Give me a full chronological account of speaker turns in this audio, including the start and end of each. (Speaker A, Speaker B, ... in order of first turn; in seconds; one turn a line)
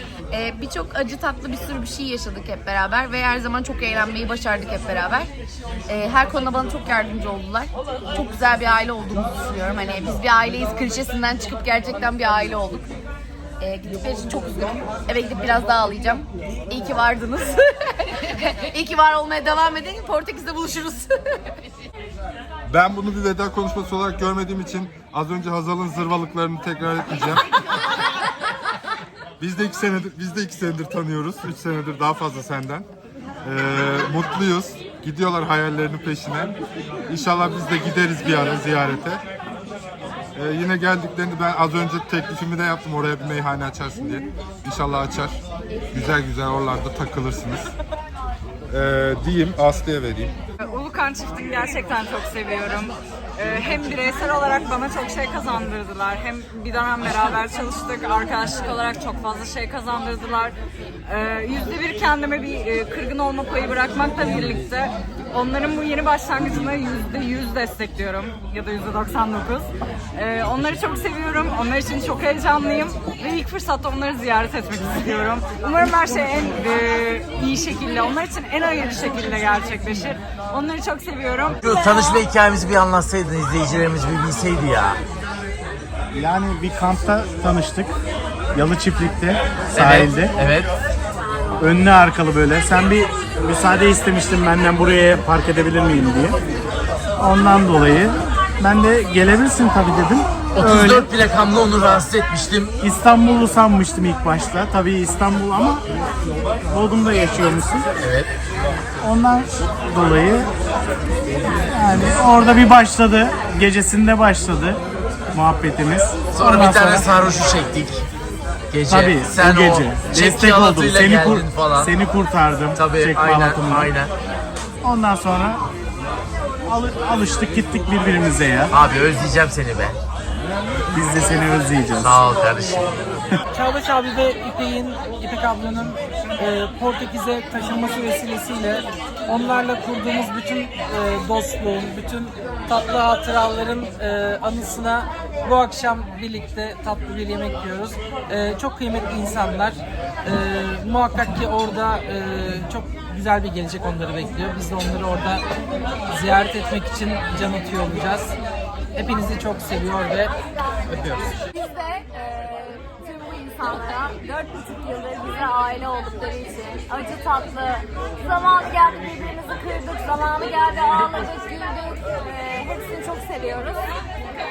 Speaker A: 0.3-5.3
Speaker A: 5.9-12.9
Speaker A: 13.6-21.1
Speaker B: 22.7-27.5
Speaker B: 29.4-32.9
Speaker B: 33.4-36.6
Speaker B: 37.1-39.2
Speaker B: 40.3-47.7
Speaker B: 48.7-50.3
Speaker C: 50.6-81.6
Speaker D: 81.6-85.0
Speaker E: 86.1-87.9
Speaker E: 88.5-90.3
Speaker D: 89.7-90.7
Speaker E: 91.6-96.3
Speaker E: 97.2-101.1
Speaker D: 100.5-102.7
Speaker E: 102.8-105.8
Speaker E: 106.7-107.8
Speaker D: 108.0-108.3
Speaker E: 109.0-110.5
Speaker E: 111.7-114.8
Speaker E: 115.3-117.1
Speaker D: 116.3-118.0
Speaker D: 118.7-122.0
Speaker E: 118.9-123.9
Speaker D: 122.7-124.1
Speaker E: 124.8-125.6
Speaker E: 126.7-128.7
Speaker D: 128.7-130.0
Speaker E: 130.9-132.2
Speaker D: 132.0-133.0
Speaker F: 133.5-155.4
Speaker F: 156.1-158.3
Speaker F: 158.9-160.3
Speaker G: 161.7-162.7
Speaker G: 163.2-173.9